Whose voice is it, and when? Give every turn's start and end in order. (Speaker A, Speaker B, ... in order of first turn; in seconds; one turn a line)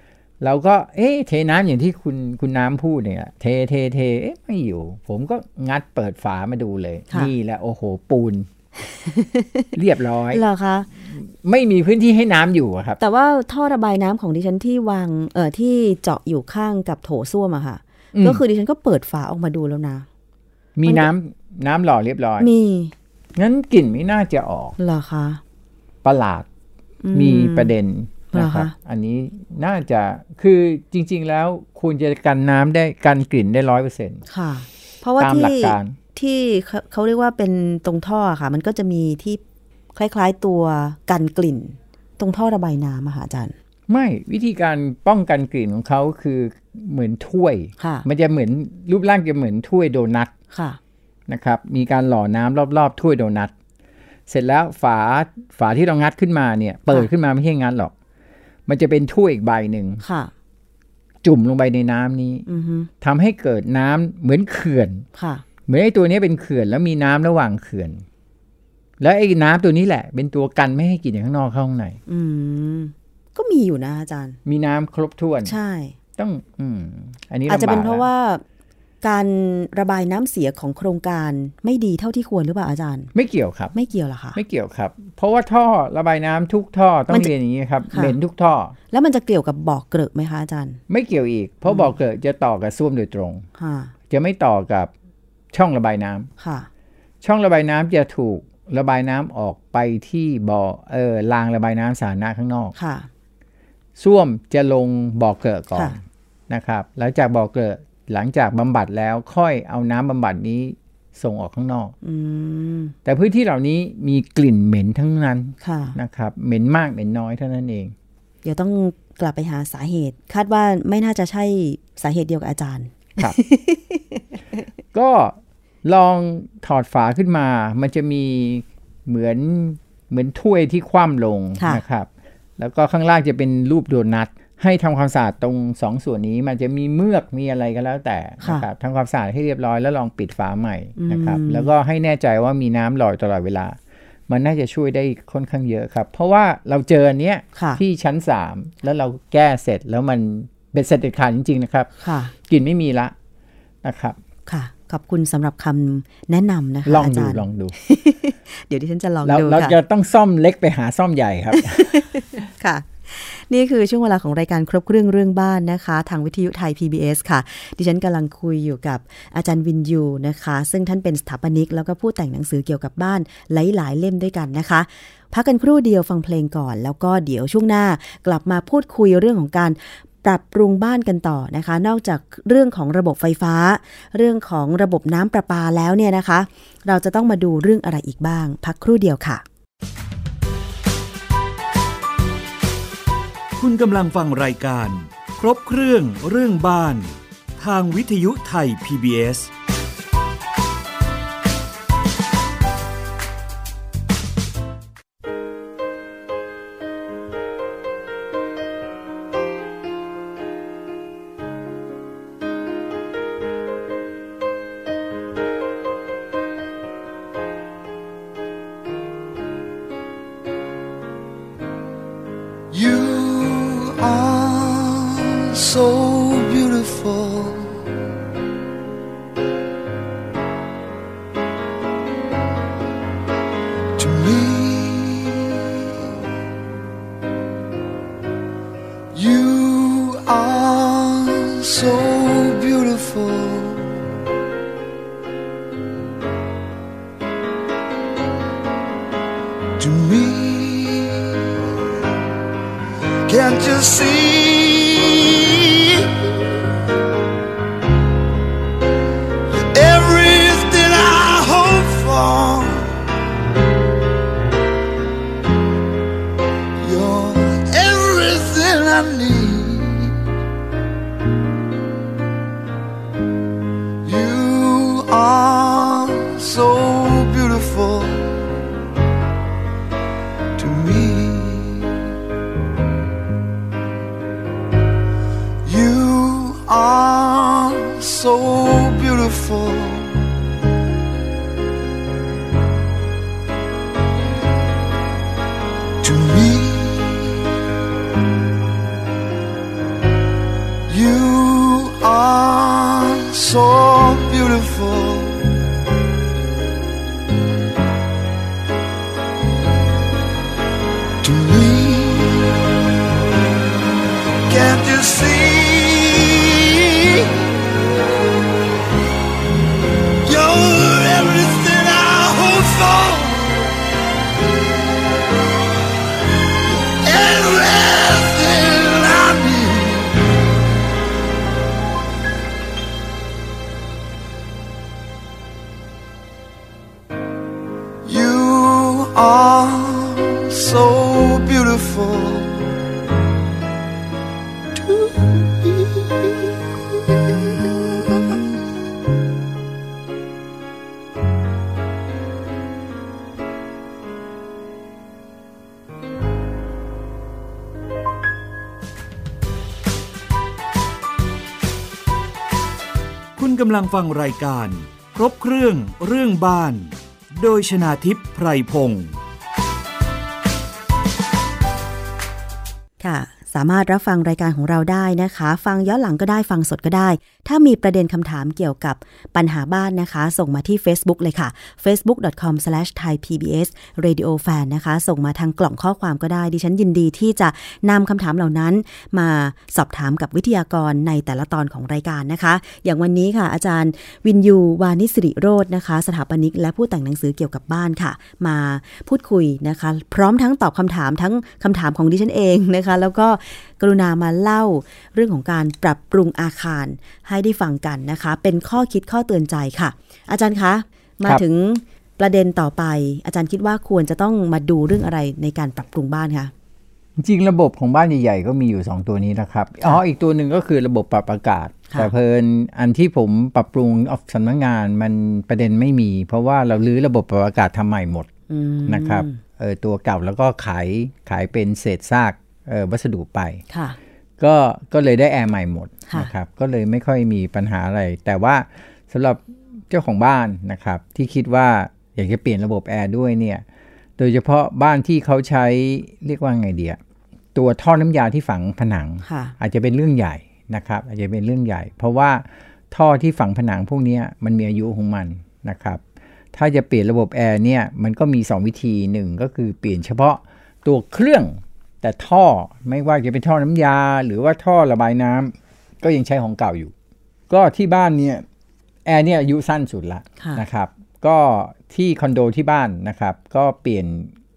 Speaker A: 0.4-8.5
Speaker B: 8.9-9.7
Speaker A: 9.7-10.4
Speaker B: 10.3-10.9
Speaker A: 11.0-13.0
Speaker B: 13.0-20.1
Speaker A: 18.1-18.4
Speaker A: 20.8-22.5
Speaker B: 22.4-22.9
Speaker A: 23.4-24.8
Speaker B: 24.8-25.4
Speaker A: 26.0-26.4
Speaker B: 27.0-27.7
Speaker A: 27.1-34.2
Speaker B: 28.3-28.7
Speaker B: 34.3-39.4
Speaker A: 35.2-36.0
Speaker B: 39.9-43.5
Speaker A: 43.9-50.3
Speaker B: 47.8-48.0
Speaker B: 50.5-50.8
Speaker A: 51.3-53.5
Speaker A: 54.3-57.9
Speaker A: 58.7-60.0
Speaker B: 60.0-60.3
Speaker A: 61.2-62.5
Speaker B: 62.5-62.9
Speaker A: 63.0-65.0
Speaker B: 65.1-65.4
Speaker A: 65.7-68.0
Speaker A: 69.0-72.0
Speaker B: 72.1-74.4
Speaker A: 74.4-75.5
Speaker B: 75.4-75.9
Speaker A: 76.2-78.1
Speaker B: 77.5-78.4
Speaker B: 79.0-83.1
Speaker A: 83.1-83.7
Speaker B: 83.7-84.4
Speaker A: 84.3-88.7
Speaker B: 87.9-88.2
Speaker B: 88.9-90.8
Speaker A: 90.9-93.4
Speaker B: 91.7-91.9
Speaker B: 93.6-93.9
Speaker A: 94.1-94.9
Speaker A: 95.5-96.3
Speaker B: 96.4-96.7
Speaker A: 97.2-102.7
Speaker B: 102.8-103.1
Speaker A: 104.0-111.9
Speaker B: 112.0-112.9
Speaker A: 113.0-117.9
Speaker B: 115.6-116.0
Speaker B: 118.4-124.2
Speaker A: 124.9-143.8
Speaker B: 138.4-138.7
Speaker B: 141.0-141.7
Speaker A: 144.3-151.9
Speaker B: 147.6-147.8
Speaker B: 152.0-152.3
Speaker A: 152.4-153.1
Speaker A: 153.8-154.2
Speaker B: 154.5-159.8
Speaker A: 156.8-157.7
Speaker A: 159.2-162.2
Speaker B: 161.5-189.4
Speaker C: 193.6-199.5
Speaker D: 222.7-227.8
Speaker D: 234.0-235.9
Speaker D: 239.1-244.0
Speaker D: 249.8-251.7
Speaker D: 253.3-256.5
Speaker D: 259.5-263.0
Speaker D: 266.8-270.2
Speaker D: 274.0-278.5
Speaker D: 280.6-282.0
Speaker D: 285.6-290.3
Speaker D: 296.0-297.4
Speaker D: 300.9-305.5
Speaker D: 311.2-312.7
Speaker D: 314.5-317.5
Speaker D: 320.2-323.6
Speaker D: 326.6-330.3
Speaker D: 338.0-342.8
Speaker D: 344.7-348.5
Speaker C: 363.4-369.2
Speaker B: 373.0-416.5
Speaker A: 417.2-428.3
Speaker B: 428.5-429.4
Speaker A: 428.9-433.6
Speaker B: 433.7-434.0
Speaker A: 434.4-443.6
Speaker A: 444.2-447.0
Speaker A: 447.5-456.0
Speaker B: 449.2-449.5
Speaker A: 456.5-466.9
Speaker A: 467.5-468.4
Speaker A: 469.1-474.3